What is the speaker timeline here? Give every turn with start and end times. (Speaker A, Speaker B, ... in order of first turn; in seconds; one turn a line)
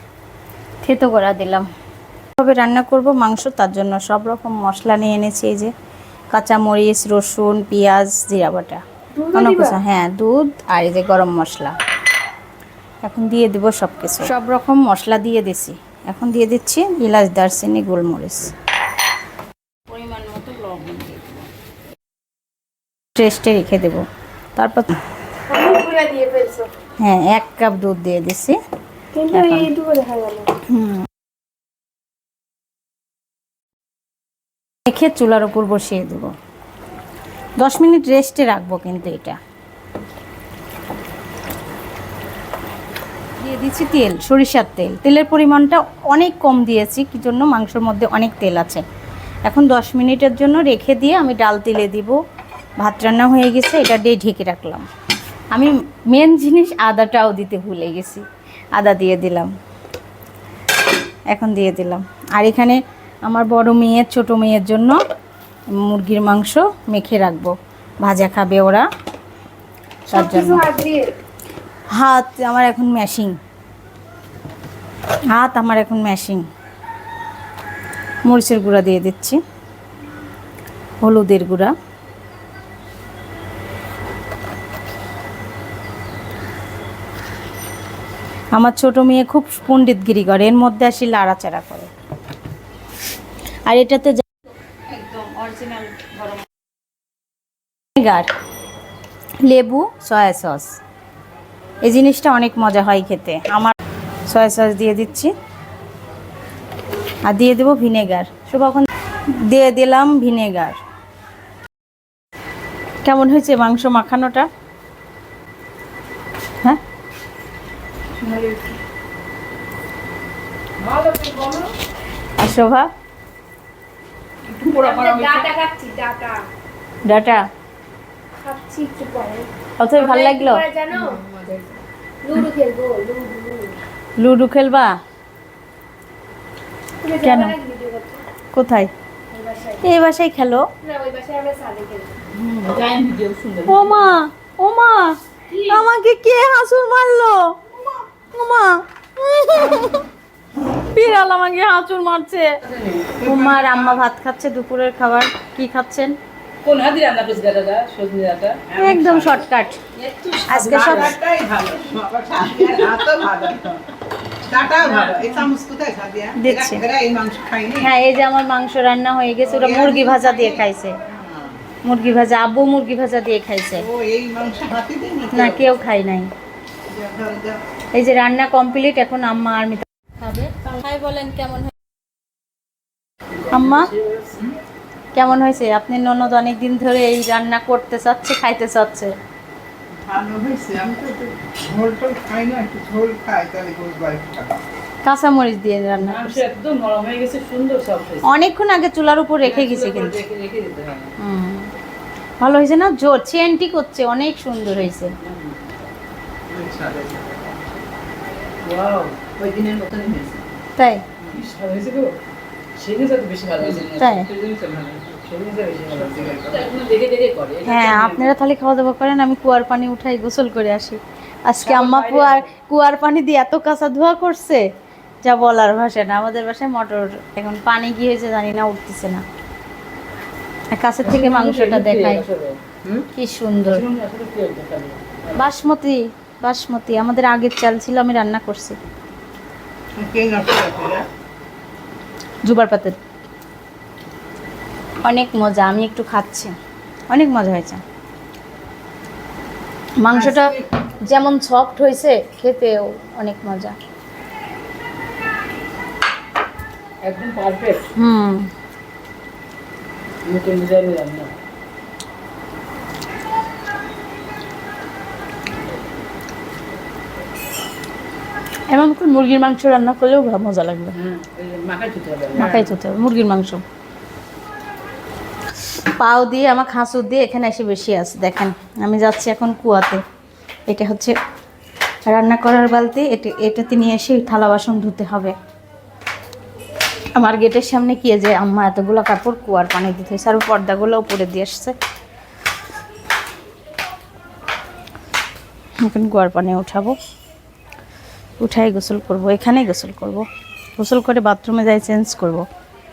Speaker A: 0.8-1.7
Speaker A: 2.4-5.7
Speaker A: 6.3-8.8
Speaker B: 9.1-9.8
Speaker A: 9.3-11.8
Speaker A: 13.0-18.5
Speaker A: 19.9-21.4
Speaker A: 23.1-24.0
Speaker A: 24.6-25.0
Speaker B: 25.5-26.7
Speaker A: 27.0-28.6
Speaker B: 29.1-30.5
Speaker A: 29.3-29.7
Speaker A: 30.7-31.1
Speaker A: 34.9-36.3
Speaker A: 37.6-39.4
Speaker A: 43.4-48.8
Speaker A: 49.5-52.2
Speaker A: 52.8-54.9
Speaker A: 55.5-58.2
Speaker A: 58.8-59.5
Speaker A: 61.3-65.0
Speaker A: 65.7-68.8
Speaker A: 70.1-70.7
Speaker B: 70.1-71.1
Speaker A: 71.9-73.3
Speaker A: 75.3-76.5
Speaker A: 78.2-79.4
Speaker A: 81.0-81.7
Speaker A: 88.5-91.9
Speaker A: 93.7-94.2
Speaker A: 94.9-96.4
Speaker A: 98.0-98.3
Speaker A: 99.5-100.8
Speaker A: 101.8-103.7
Speaker A: 104.3-105.3
Speaker A: 107.3-110.8
Speaker A: 113.0-114.5
Speaker C: 118.2-118.7
Speaker C: 120.8-121.7
Speaker A: 122.4-122.9
Speaker D: 124.5-125.5
Speaker B: 124.7-126.5
Speaker C: 124.9-125.2
Speaker A: 127.1-127.4
Speaker B: 128.4-131.2
Speaker A: 129.8-130.6
Speaker B: 132.2-133.8
Speaker A: 134.2-135.0
Speaker B: 137.0-138.2
Speaker A: 137.2-137.6
Speaker A: 138.5-138.9
Speaker B: 139.3-139.8
Speaker A: 139.8-140.6
Speaker B: 140.8-142.2
Speaker D: 142.5-144.1
Speaker A: 143.7-147.5
Speaker B: 145.5-145.8
Speaker A: 148.3-150.1
Speaker A: 150.9-152.6
Speaker D: 152.6-153.2
Speaker C: 153.2-154.0
Speaker A: 153.2-156.1
Speaker D: 156.6-159.4
Speaker A: 158.7-159.8
Speaker D: 160.0-161.2
Speaker C: 160.4-163.8
Speaker A: 160.5-161.1
Speaker C: 164.4-167.9
Speaker D: 164.8-165.3
Speaker A: 166.4-166.8
Speaker A: 167.8-170.9
Speaker C: 169.5-170.6
Speaker C: 171.2-171.5
Speaker A: 171.8-173.9
Speaker C: 173.8-175.7
Speaker A: 175.3-176.3
Speaker C: 176.9-177.6
Speaker A: 177.9-181.7
Speaker D: 183.4-184.5
Speaker A: 183.5-183.9
Speaker A: 185.1-189.1
Speaker C: 190.1-194.5
Speaker A: 195.0-196.4
Speaker D: 196.0-198.3
Speaker A: 198.2-200.2
Speaker D: 199.4-201.1
Speaker A: 201.2-201.7
Speaker A: 202.4-205.1
Speaker D: 205.2-205.7
Speaker C: 206.5-207.4
Speaker D: 208.6-210.3
Speaker C: 209.4-210.2
Speaker A: 210.8-211.0
Speaker D: 211.3-212.1
Speaker D: 212.8-218.3
Speaker A: 214.0-214.3
Speaker C: 215.9-216.7
Speaker A: 217.7-224.6
Speaker D: 221.6-222.5
Speaker A: 225.2-229.2
Speaker A: 230.7-232.2
Speaker D: 231.0-233.1
Speaker A: 233.1-233.9
Speaker D: 233.7-235.2
Speaker A: 235.3-238.8
Speaker C: 240.0-241.0
Speaker A: 242.4-243.0
Speaker A: 245.0-246.5
Speaker A: 247.1-247.8
Speaker A: 250.0-250.5
Speaker C: 250.1-250.6
Speaker A: 251.1-253.8
Speaker D: 257.1-257.9
Speaker A: 258.0-258.5
Speaker D: 260.2-261.3
Speaker A: 268.7-270.9
Speaker D: 271.0-272.7
Speaker A: 272.4-273.6
Speaker A: 276.0-280.0
Speaker A: 280.7-281.1
Speaker A: 282.1-285.3
Speaker A: 287.2-291.8
Speaker A: 295.8-297.0
Speaker A: 298.4-300.2
Speaker A: 300.8-302.5